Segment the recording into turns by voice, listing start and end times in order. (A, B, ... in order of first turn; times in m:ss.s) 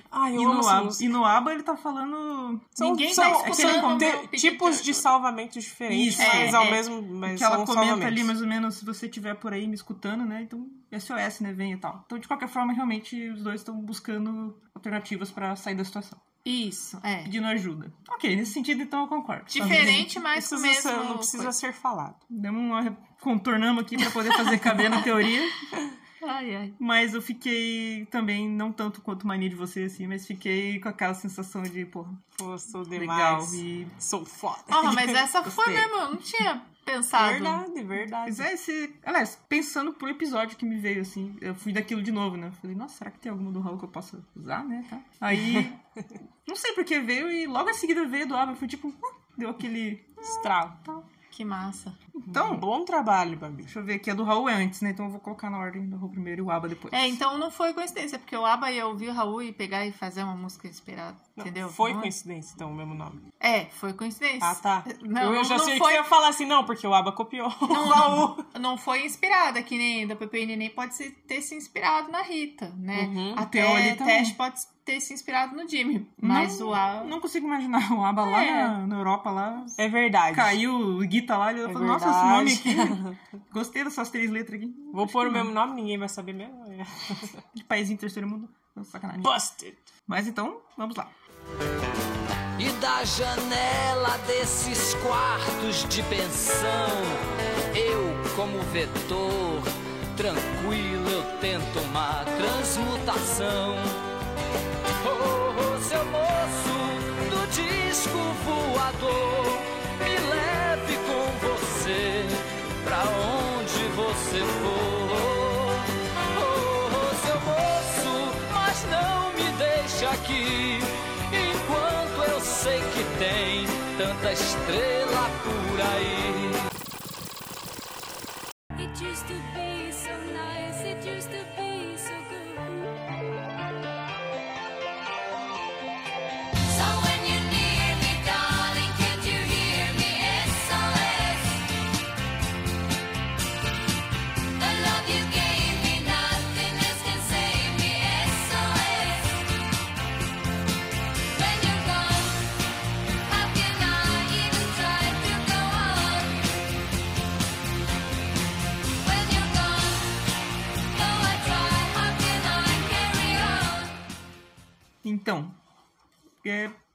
0:00.1-0:01.2 A
0:00.3-0:04.2 B
0:02.8-0:08.3 A
0:02.8-0:05.1 C
0:05.9-0:06.7 B
0:06.1-0:06.8 C
0:07.2-0:16.2 B
0:16.4-0:17.3 C
0:17.2-0:20.1 B
0:19.5-0:21.5 C
0:19.6-0:22.2 A
0:22.3-0:25.6 B
0:26.2-0:26.8 C
0:26.8-0:32.2 B
0:32.4-0:35.2 A
0:32.9-0:33.9 B
0:34.7-0:37.6 C
0:34.8-0:35.9 B
0:37.1-0:38.5 A
0:38.2-0:45.8 B
0:45.3-0:45.6 A
0:46.4-0:51.0 B
0:51.1-0:52.0 C
0:52.2-0:52.6 B
0:52.3-0:53.7 A
0:53.6-0:57.2 B
0:56.9-1:02.1 C
1:01.4-1:03.2 A
1:03.4-1:06.1 C
1:04.4-1:08.4 A
1:07.7-1:17.1 C
1:12.9-1:13.5 A
1:13.4-1:14.4 B
1:16.2-1:19.8 B
1:18.3-1:18.7 C
1:19.8-1:20.6 A
1:20.3-1:25.5 B
1:21.6-1:23.2 A
1:24.9-1:27.4 A
1:27.5-1:29.4 B
1:29.2-1:29.8 A
1:30.1-1:31.1 B
1:32.6-1:44.0 D
1:45.0-2:06.6 D
2:08.8-2:12.7 E
2:16.7-2:21.6 E
2:24.6-2:29.4 E
2:31.3-2:32.4 E
2:33.3-2:36.4 E
2:39.0-2:40.1 E
2:40.9-2:43.9 E
2:45.0-2:45.6 B
2:46.4-2:46.8 B